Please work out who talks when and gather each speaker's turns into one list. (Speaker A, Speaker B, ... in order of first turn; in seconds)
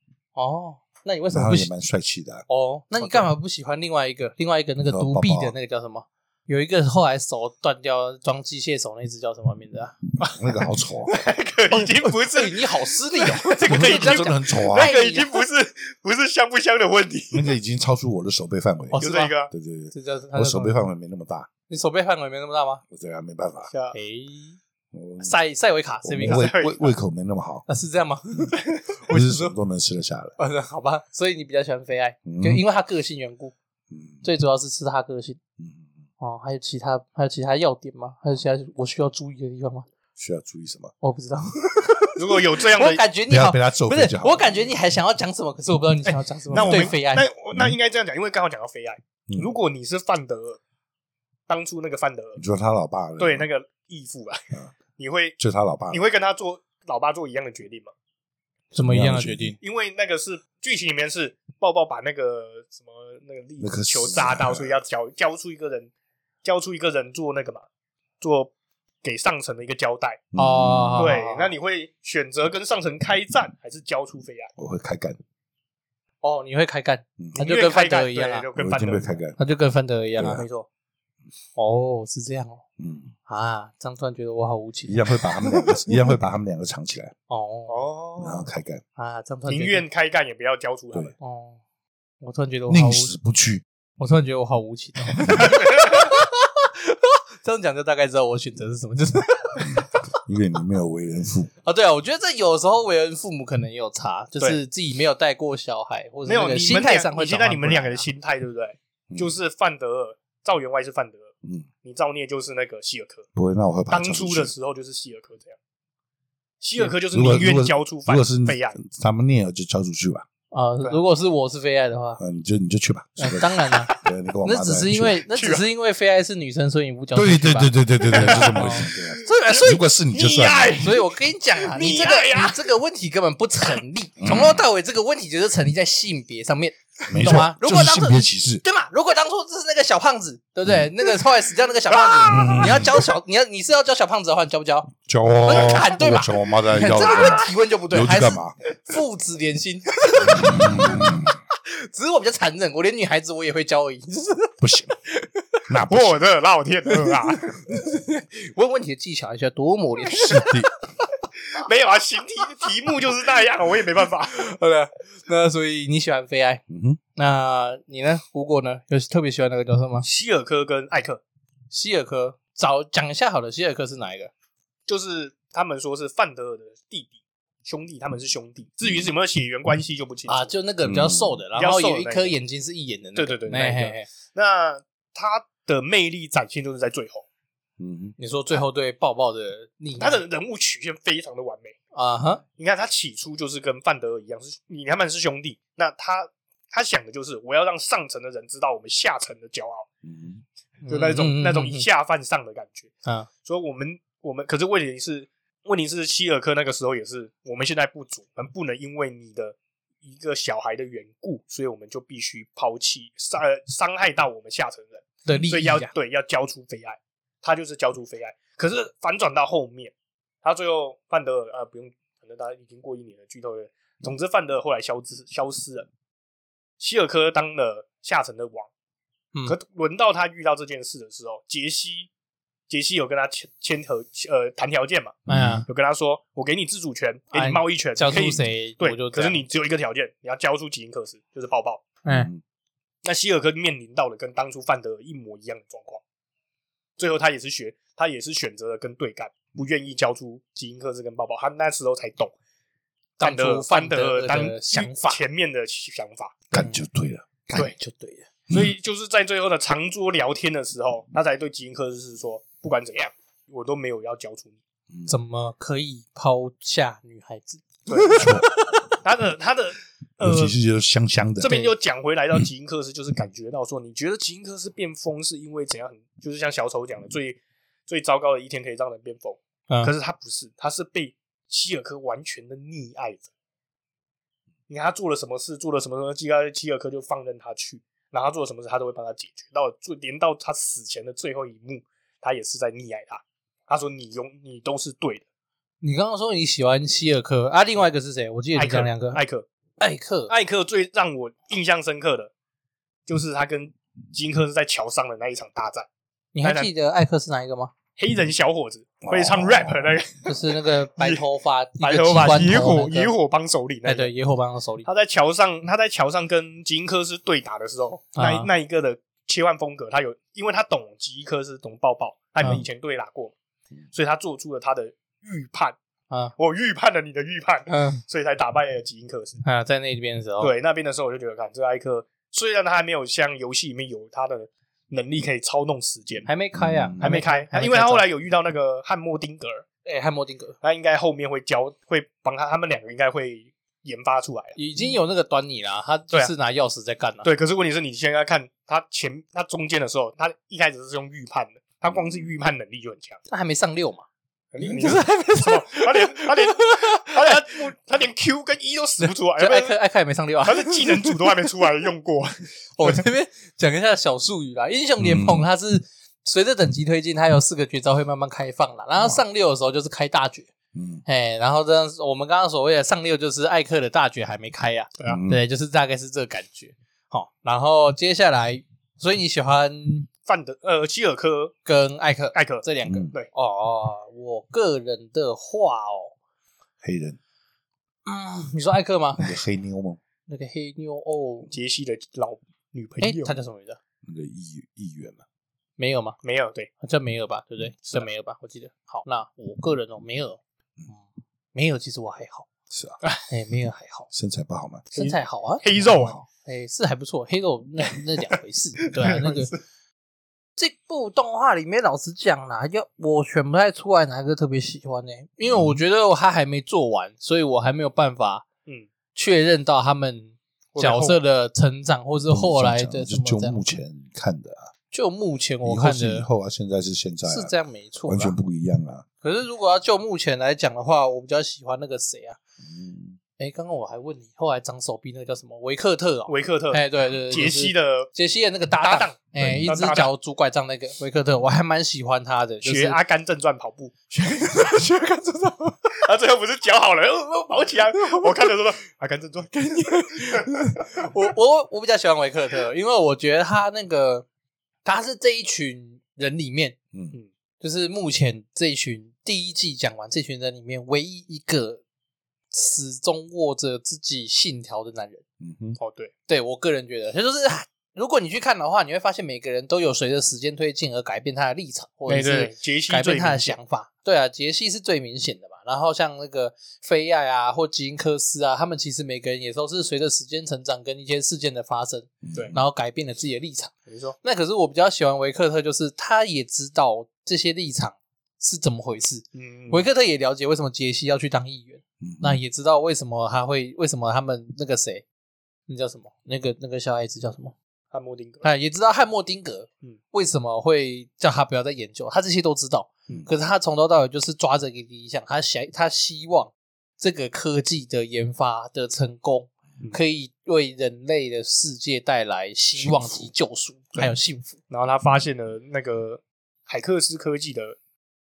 Speaker A: 0.3-1.7, 2.5-10.0, 11.7-15.3, 18.9-19.4, 19.9-20.9, 21.7-22.8, 23.9-24.6, 25.2-26.5, 27.7-29.6, 30.4-33.5, 34.2-35.4, 36.2-39.9, 41.0-47.3, 58.7-59.6, 70.4-71.5, 76.2-78.5, 79.4-80.5, 81.6-82.6, 83.3-86.0, 87.3-87.9, 89.0-89.8, 91.2-91.6, 92.2-93.2, 94.0-100.0, 101.6-108.0, 120.5-122.2, 123.2-129.8, 130.8-154.5, 155.1-155.6, 156.9-160.6, 164.3-166.6, 167.2-170.1, 171.7-174.3, 180.3-184.1, 188.2-190.2, 191.9-192.4, 200.9-201.9, 215.3-215.9, 235.3-235.6, 237.3-239.4, 253.2-255.2, 256.5-256.8, 257.5-258.3, 265.1-268.9, 271.4-271.7, 295.8-299.2, 299.8-300.3, 306.3-307.7, 310.2-313.1, 313.9-314.9, 318.2-318.5, 327.7-328.0, 329.4-330.5, 336.3-338.1, 339.9-340.6, 344.6-347.3, 353.3-354.1, 354.6-357.4, 359.0-361.4, 362.8-370.5, 371.1-380.1, 381.7-386.1, 388.1-389.3, 390.3-391.5, 393.0-393.8, 395.8-396.2, 396.8-401.0, 401.5-402.5, 403.2-404.1, 404.9-405.6, 406.4-409.5, 410.6-418.5, 419.1-423.6, 424.9-426.3, 427.3-428.4, 429.2-432.4, 433.4-443.0, 444.1-445.9, 448.0-448.5, 449.5-454.3, 454.9-456.8, 457.6-461.8, 462.5-465.2, 466.3-495.1, 495.7-497.5, 498.4-514.6
Speaker B: 1.3-2.5, 4.8-5.5, 10.3-11.1, 13.7-14.9, 17.3-19.0, 19.5-21.5, 22.9-23.7, 24.9-25.3, 26.0-27.7, 29.1-30.4, 32.2-32.6, 33.9-34.2, 35.6-36.0, 40.2-40.9, 43.3-44.7, 46.5-46.9, 52.4-53.5, 55.4-56.0, 58.8-59.6, 63.6-64.7, 70.3-71.1, 74.6-75.2, 78.6-79.4, 80.2-80.5, 82.8-83.1, 84.9-87.1, 88.2-88.8, 92.7-93.6, 95.3-95.5, 100.1-101.5, 113.3-114.5, 117.1-120.3, 122.2-125.2, 127.1-130.9, 134.2-134.6, 137.1-138.6, 142.3-143.0, 145.1-148.6, 150.2-151.3, 154.6-154.9, 155.7-156.2, 160.1-160.7, 166.7-167.0, 180.8-181.4, 187.8-188.2, 200.0-200.4, 235.3-235.7, 242.1-242.4, 256.5-257.7, 268.1-268.5, 270.2-271.5, 309.0-310.0, 336.6-337.1, 365.0-365.5, 370.8-371.0, 375.1-375.4, 386.8-387.2, 389.2-390.0, 394.1-395.2, 402.7-403.0, 404.1-404.9, 405.8-406.2, 415.5-415.8, 422.3-424.7, 425.6-427.5, 428.1-429.1, 432.6-433.2, 439.4-439.7, 465.4-465.8, 482.2-482.6, 492.0-492.4, 512.8-513.3
Speaker C: 11.1-17.5, 19.0-19.5, 23.7-24.0, 26.2-26.9, 42.2-43.0, 46.0-50.6, 51.5-52.4, 53.2-55.4, 55.9-57.9, 59.6-65.9, 66.4-67.7, 68.2-68.5, 69.0-70.2, 71.0-74.5, 77.4-79.2, 87.7-88.5, 89.5-91.2, 106.3-111.3, 111.8-113.3, 113.9-115.6, 116.6-118.8, 125.3-125.6, 128.1-132.7, 141.9-142.5, 155.9-157.6, 161.5-164.5, 170.0-171.2, 174.9-180.5, 181.6-182.4, 183.2-187.2, 190.0-191.8, 192.6-199.9, 200.8-225.9, 226.8-228.7, 229.5-232.1, 232.7-241.9, 243.0-246.0, 247.0-252.3, 253.2-256.5, 258.5-264.5, 267.9-268.3, 269.0-270.6, 271.4-283.3, 284.7-295.2, 298.6-299.5, 300.3-302.3, 303.1-305.9, 306.4-306.7, 308.0-311.2, 311.8-314.1, 314.9-323.3, 323.9-325.8, 326.4-329.4, 330.4-336.3, 337.0-339.6, 340.6-344.6, 347.2-353.2, 354.5-359.8, 360.4-363.0, 380.3-381.6, 382.3-383.3, 391.5-393.4, 396.2-396.7, 404.9-406.2, 408.9-409.6, 420.8-421.2, 436.3-438.1, 438.8-440.1, 442.6-443.9, 446.0-449.6, 450.1-450.6, 465.8-466.1, 472.1-473.6, 483.9-484.2, 489.3-489.9, 497.9-498.4, 514.7-517.8